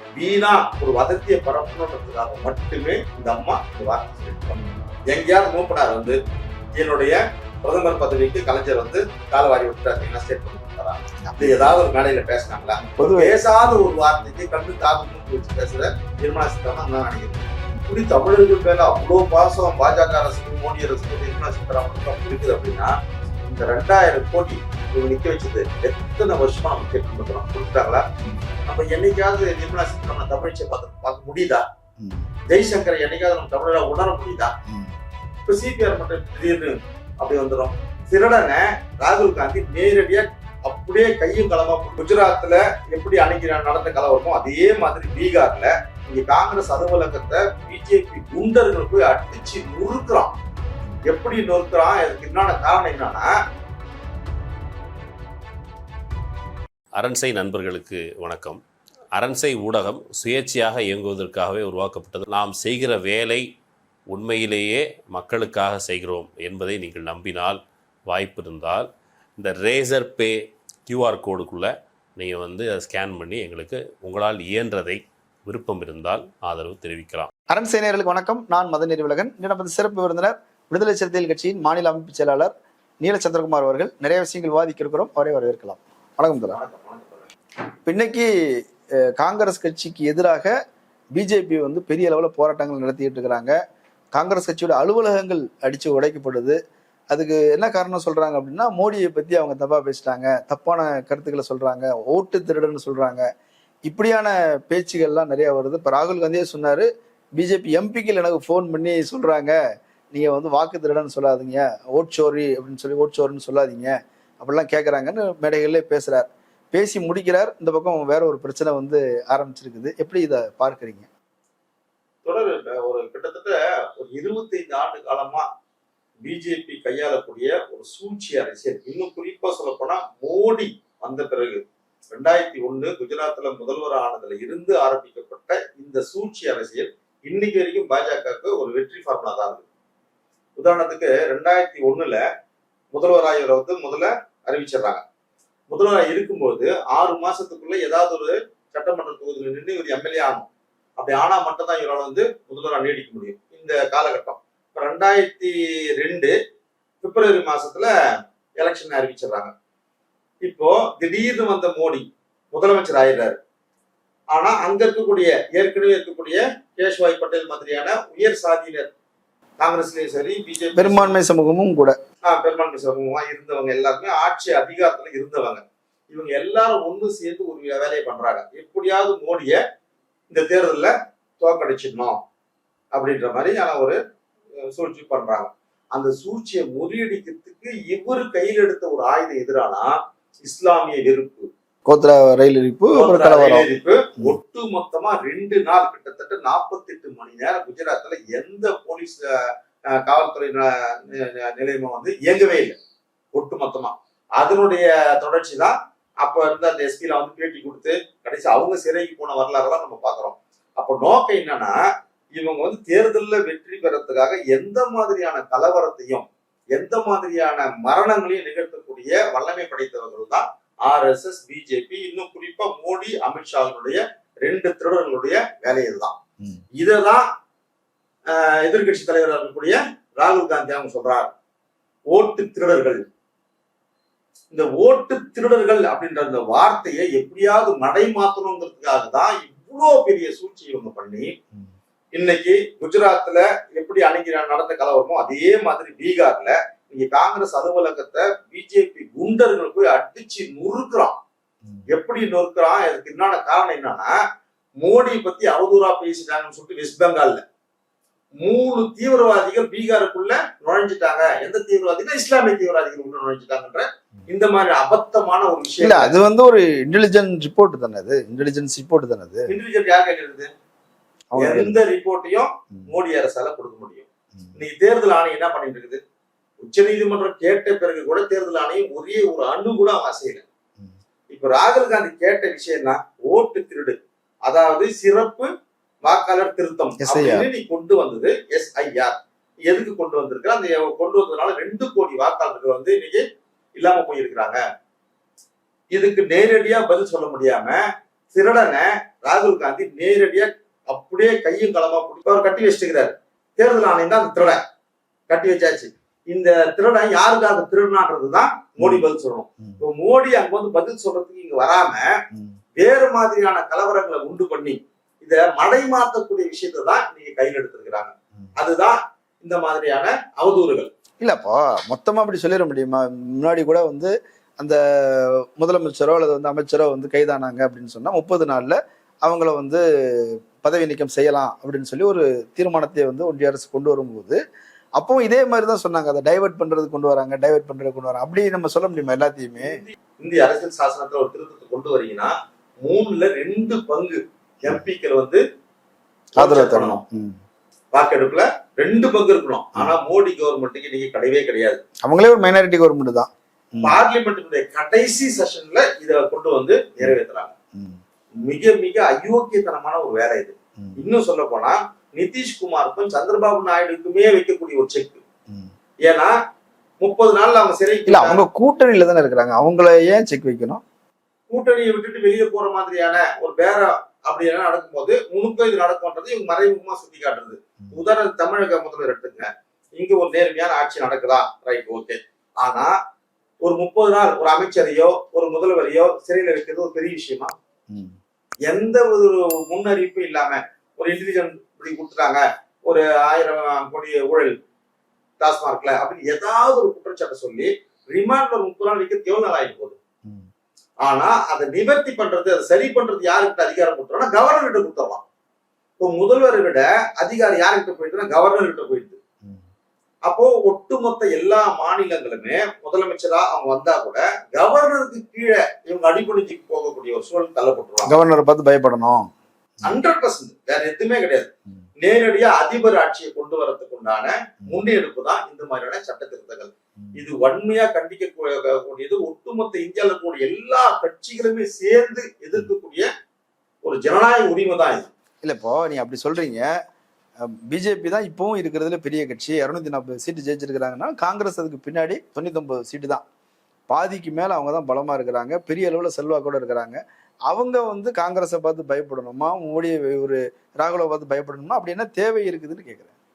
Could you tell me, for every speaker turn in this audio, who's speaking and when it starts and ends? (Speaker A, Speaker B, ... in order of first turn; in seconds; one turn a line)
Speaker A: 0.2-6.2
Speaker A: 6.8-28.1
Speaker B: 11.2-11.8
Speaker B: 12.9-13.8
Speaker A: 28.6-31.6
Speaker B: 32.0-32.3
Speaker A: 32.5-34.5
Speaker B: 34.7-35.0
Speaker A: 35.5-50.3
Speaker A: 51.1-53.3
Speaker C: 57.0-58.6
Speaker C: 59.1-63.5
Speaker C: 64.1-77.3
Speaker B: 77.5-86.6
Speaker A: 86.5-87.3
Speaker B: 87.8-88.3
Speaker B: 89.0-90.5
Speaker B: 91.2-93.5
Speaker B: 94.1-96.6
Speaker B: 97.1-103.3
Speaker B: 103.9-109.6
Speaker B: 110.1-121.1
Speaker A: 122.2-125.5
Speaker A: 126.2-139.7
Speaker A: 140.6-142.2
Speaker A: 142.9-145.0
Speaker A: 145.7-156.3
Speaker A: 157.0-157.9
Speaker A: 158.6-159.5
Speaker A: 160.4-163.4
Speaker A: 164.3-168.9
Speaker A: 169.6-171.2
Speaker B: 170.8-172.0
Speaker A: 172.2-179.6
Speaker A: 180.3-182.2
Speaker A: 182.9-184.0
Speaker A: 184.6-191.5
Speaker B: 191.9-194.4
Speaker A: 192.9-202.8
Speaker A: 203.3-211.8
Speaker A: 212.3-226.2
Speaker A: 226.8-227.3
Speaker A: 228.3-231.3
Speaker A: 232.1-233.0
Speaker A: 234.5-241.3
Speaker A: 242.2-251.2
Speaker A: 251.9-254.1
Speaker A: 254.8-257.4
Speaker A: 258.4-266.2
Speaker B: 265.8-269.5
Speaker A: 269.5-270.5
Speaker B: 271.3-271.8
Speaker A: 271.4-276.0
Speaker A: 276.6-280.5
Speaker A: 281.3-285.5
Speaker A: 286.0-293.2
Speaker B: 287.0-287.5
Speaker A: 293.8-294.6
Speaker A: 295.9-297.8
Speaker A: 298.3-304.6
Speaker A: 305.3-312.1
Speaker B: 308.8-309.1
Speaker B: 312.3-312.6
Speaker A: 312.8-320.9
Speaker B: 321.2-334.4
Speaker B: 335.0-339.8
Speaker A: 339.6-345.4
Speaker A: 346.4-347.0
Speaker B: 346.4-347.4
Speaker A: 347.9-351.8
Speaker B: 352.0-354.0
Speaker A: 353.8-357.5
Speaker B: 357.8-358.0
Speaker A: 358.4-365.2
Speaker A: 366.1-366.4
Speaker A: 367.0-368.4
Speaker B: 368.1-370.8
Speaker A: 371.5-382.9
Speaker A: 383.6-387.5
Speaker B: 387.9-388.2
Speaker A: 388.7-394.6
Speaker A: 395.4-400.0
Speaker A: 401.1-405.2
Speaker A: 406.0-409.2
Speaker A: 410.3-418.2
Speaker B: 418.1-420.0
Speaker A: 419.8-433.1
Speaker A: 433.8-435.1
Speaker B: 435.4-436.7
Speaker B: 437.4-443.2
Speaker B: 443.9-453.1